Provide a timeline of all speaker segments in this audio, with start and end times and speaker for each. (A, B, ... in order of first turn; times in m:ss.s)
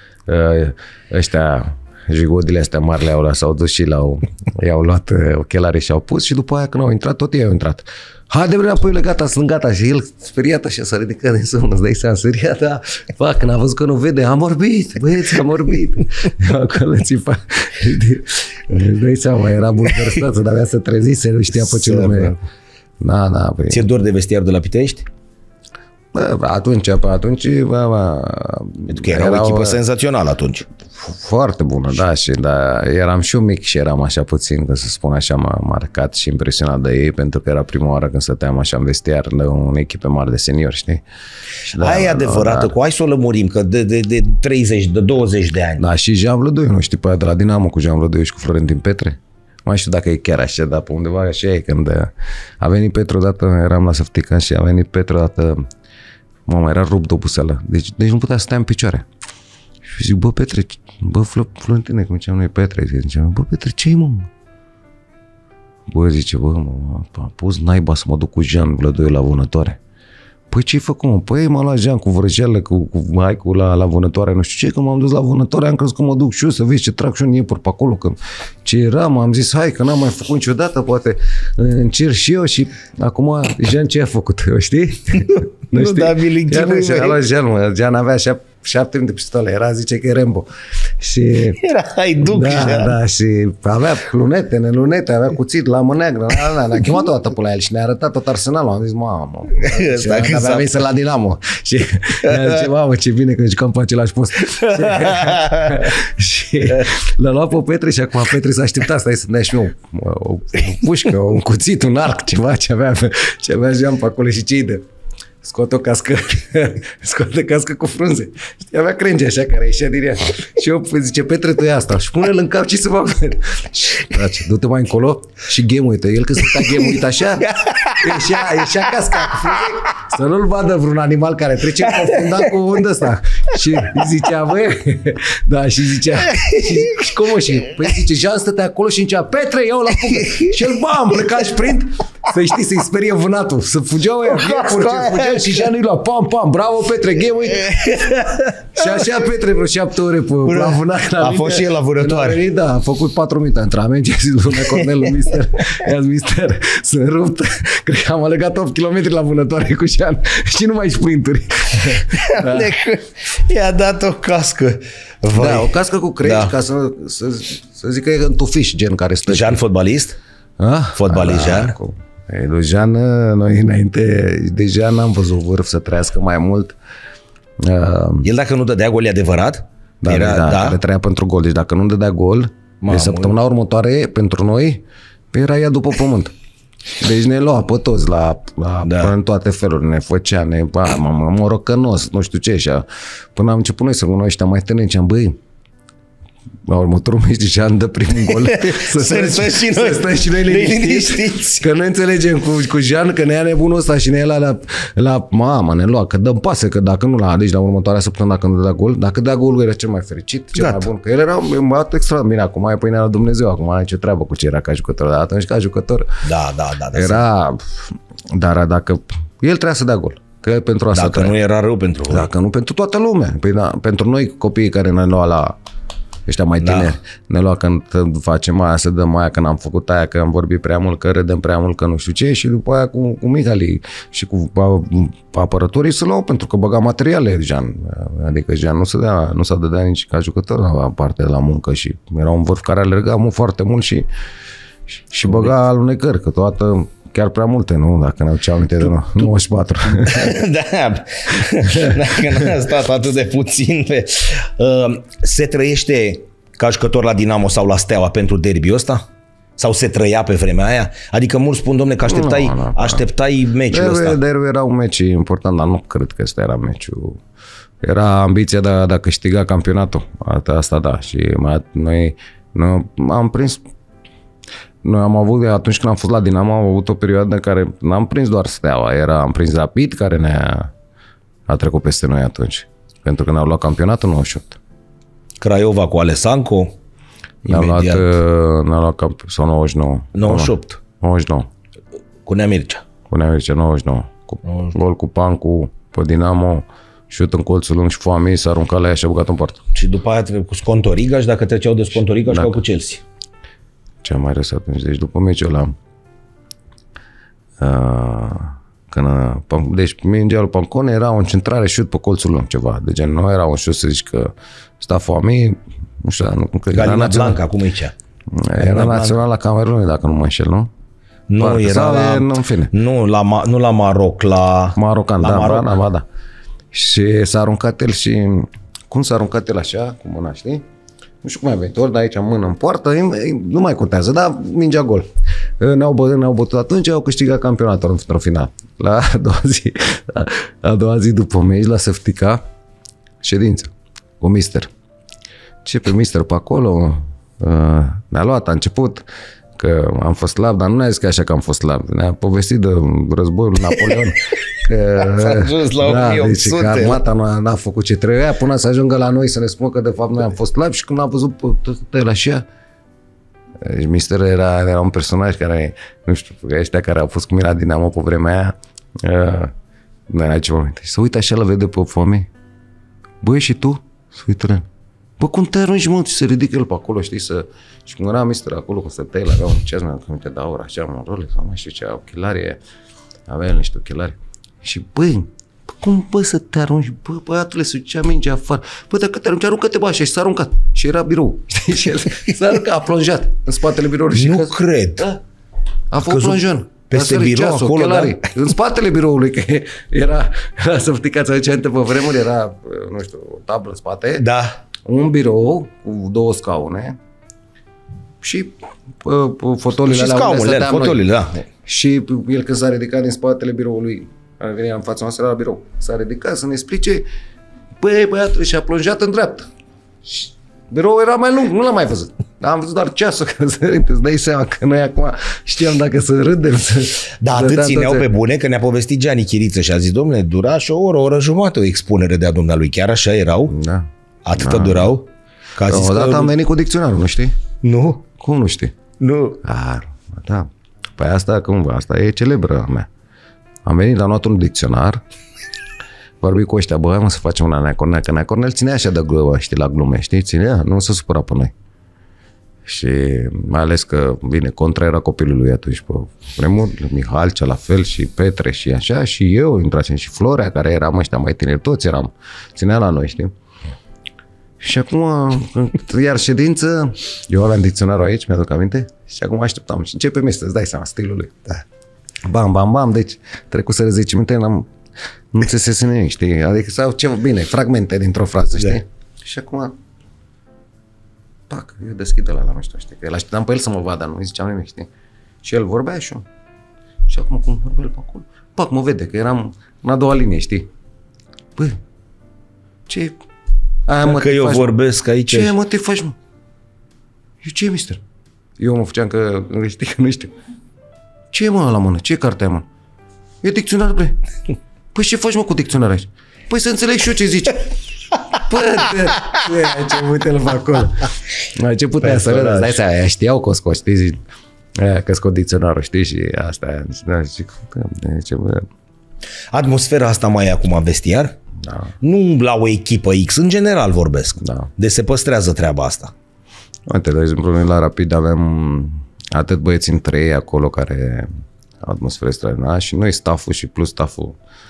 0:00.3-0:22.4 A
0:21.6-0:22.4 B
0:23.0-0:23.8 A
0:23.7-0:25.0 B
0:26.1-0:29.8 A
0:28.9-0:30.6 B
0:30.9-0:41.0 A
0:41.6-0:42.7 A
0:41.8-0:45.8 B
0:45.8-0:55.6 A
0:56.4-0:59.0 A
0:59.8-1:04.3 A
1:05.9-1:09.8 A
1:10.5-1:31.6 A
1:25.3-1:27.2 B
1:31.6-1:33.0 B
1:32.2-1:54.8 A
1:39.6-1:40.7 B
1:42.2-1:42.6 B
1:44.5-1:45.9 B
1:55.4-2:42.8 A
2:06.4-2:09.7 B
2:11.8-2:12.6 B
2:13.6-2:14.1 B
2:16.2-2:17.2 B
2:20.1-2:20.6 B
2:24.2-2:25.7 B
2:27.5-2:29.1 B
2:30.4-2:32.4 B
2:42.1-2:46.5 B
2:45.3-2:49.6 A
2:49.3-2:50.2 B
2:50.6-2:56.8 A
2:51.0-2:51.8 B
2:57.6-2:58.2 A
2:58.2-3:00.8 B
3:00.0-3:06.3 A
3:02.8-3:03.3 B
3:07.0-3:15.4 A
3:08.8-3:09.1 B
3:16.6-3:36.2 A
3:18.3-3:21.7 B
3:30.6-3:30.9 B
3:36.2-3:37.2 B
3:36.9-3:41.3 A
3:40.9-3:42.3 B
3:42.1-3:45.6 A
3:46.3-4:04.1 A
3:46.6-3:46.9 B
4:04.9-4:10.4 A
4:09.9-4:19.0 B
4:11.8-4:12.2 A
4:19.6-4:24.2 B
4:22.0-4:23.0 A
4:23.7-4:27.2 A
4:27.8-4:33.6 A
4:34.8-4:40.7 A
4:41.5-4:44.6 A
4:45.4-4:46.7 B
4:47.4-4:51.5 A
4:47.5-4:48.1 B
4:50.1-4:50.8 B
4:52.2-4:52.8 B
4:53.1-4:59.6 A
4:54.4-4:54.7 B
4:59.7-5:03.0 B
5:02.3-5:02.6 A
5:04.0-5:05.7 A
5:07.6-5:17.4 A
5:16.7-5:17.9 B
5:18.3-5:20.7 A
5:18.5-5:19.2 B
5:21.3-5:25.7 B
5:21.4-5:22.7 A
5:24.8-5:26.0 A
5:26.7-5:30.6 A
5:31.2-5:35.1 A
5:35.6-5:42.4 A
5:43.2-5:44.7 A
5:45.6-5:49.0 A
5:49.6-6:02.4 A
5:55.0-5:57.0 B
6:03.6-6:09.5 A
6:10.1-6:12.3 A
6:13.2-6:14.7 A
6:15.2-6:22.6 A
6:23.3-6:35.2 A
6:34.1-6:35.1 B
6:35.9-6:44.3 A
6:36.0-6:38.2 B
6:44.2-6:44.6 B
6:44.8-6:47.0 A
6:48.2-6:51.1 A
6:49.8-6:51.4 B
6:51.6-6:57.0 A
6:57.8-6:59.5 A
7:00.0-7:08.1 A
7:07.2-7:13.6 B
7:13.5-7:14.9 A
7:14.2-7:16.3 B
7:15.6-7:17.3 A
7:17.6-7:18.0 B
7:18.2-7:18.7 A
7:19.0-7:19.4 B
7:19.4-7:22.9 A
7:23.6-7:25.0 A
7:26.2-7:31.5 A
7:32.6-7:43.3 A
7:44.6-7:51.6 A
7:52.2-7:54.7 A
7:55.3-7:59.7 A
8:01.5-8:04.9 A
8:05.4-8:06.2 A
8:07.1-8:10.7 A
8:12.9-8:13.2 A
8:13.9-8:14.7 A
8:14.0-8:15.5 B
8:15.3-8:16.2 A
8:17.4-8:18.0 A
8:18.6-8:20.3 A
8:21.3-8:22.6 A
8:23.4-8:24.2 A
8:24.9-8:27.7 A
8:28.3-8:34.2 A
8:32.0-8:32.8 B
8:34.8-8:38.7 A
8:39.5-8:41.3 B
8:41.6-8:41.9 A
8:42.0-8:46.1 B
8:44.4-8:44.7 A
8:46.9-8:51.3 A
8:51.8-8:54.4 A